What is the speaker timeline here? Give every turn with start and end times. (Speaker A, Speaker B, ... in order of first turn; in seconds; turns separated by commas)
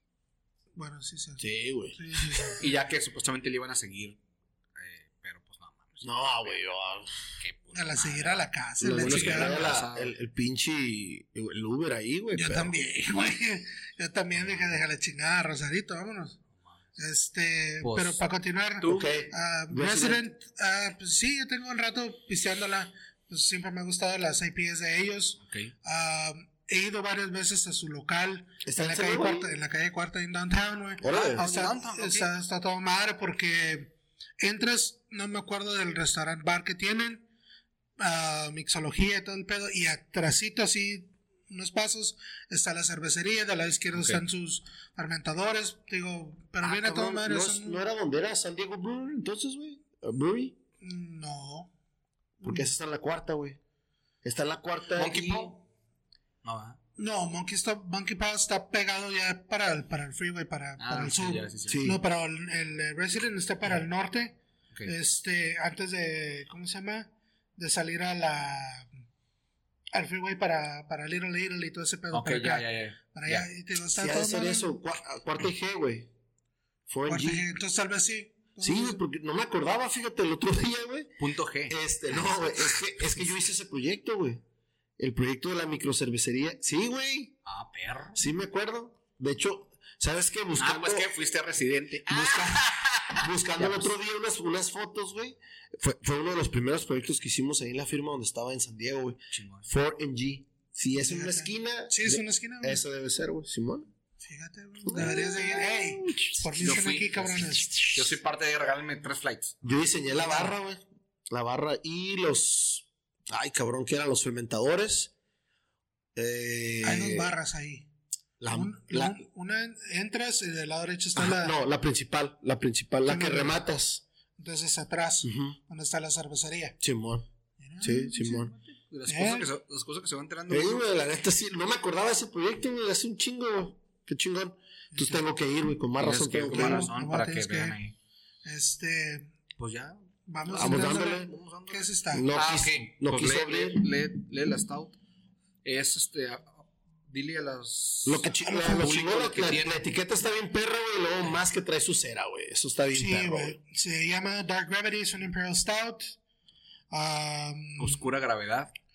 Speaker A: 0.8-2.6, Speaker B: 1.4-2.6, Speaker C: 2.6-4.2, Speaker C: 4.8-6.1, Speaker B: 6.0-7.1, Speaker C: 7.4-8.4, Speaker A: 7.7-9.7, Speaker B: 8.8-12.7, Speaker C: 8.9-10.1, Speaker A: 12.3-16.4, Speaker A: 17.0-37.3, Speaker C: 17.8-18.2, Speaker B: 18.8-20.2, Speaker C: 25.4-25.7, Speaker B: 28.6-29.5, Speaker B: 31.0-31.4, Speaker C: 31.0-32.3, Speaker A: 38.0-47.8, Speaker C: 43.9-44.2, Speaker B: 46.6-50.5, Speaker A: 50.8-51.7, Speaker A: 52.4-52.7, Speaker B: 52.4-53.6, Speaker B: 54.2-55.5, Speaker C: 54.9-55.6, Speaker C: 56.4-56.8, Speaker A: 57.0-68.9, Speaker C: 60.8-61.9, Speaker B: 61.7-62.0, Speaker A: 69.9-74.8, Speaker C: 72.1-73.5, Speaker B: 74.0-76.1, Speaker B: 76.9-77.5, Speaker A: 77.1-79.0, Speaker B: 78.6-84.4, Speaker C: 81.2-83.1, Speaker B: 85.0-87.3, Speaker C: 87.5-88.2, Speaker B: 88.1-91.1, Speaker C: 90.6-93.9, Speaker B: 92.1-92.6, Speaker B: 93.2-103.9, Speaker C: 99.3-99.7, Speaker A: 100.9-102.8, Speaker A: 104.2-107.8, Speaker B: 104.8-108.2, Speaker C: 106.6-109.6, Speaker B: 109.6-115.1, Speaker A: 110.1-110.5, Speaker B: 116.1-117.3, Speaker A: 116.8-117.9, Speaker B: 118.4-119.2, Speaker A: 118.5-121.5, Speaker B: 121.2-124.0, Speaker A: 123.0-123.6, Speaker A: 124.4-126.8, Speaker B: 125.2-125.6, Speaker B: 126.8-127.2, Speaker A: 127.6-128.5, Speaker B: 127.8-128.5, Speaker C: 128.2-130.8, Speaker A: 129.1-129.5, Speaker B: 130.5-136.9, Speaker A: 134.9-135.2, Speaker C: 136.0-137.9, Speaker A: 136.5-137.8, Speaker A: 138.4-139.3, Speaker C: 139.6-145.0, Speaker A: 140.3-142.3, Speaker B: 140.5-141.3, Speaker B: 142.1-143.9, Speaker C: 145.6-149.8, Speaker B: 148.0-153.6, Speaker A: 148.4-148.9, Speaker A: 152.9-156.2, Speaker A: 156.9-158.0, Speaker C: 157.8-158.7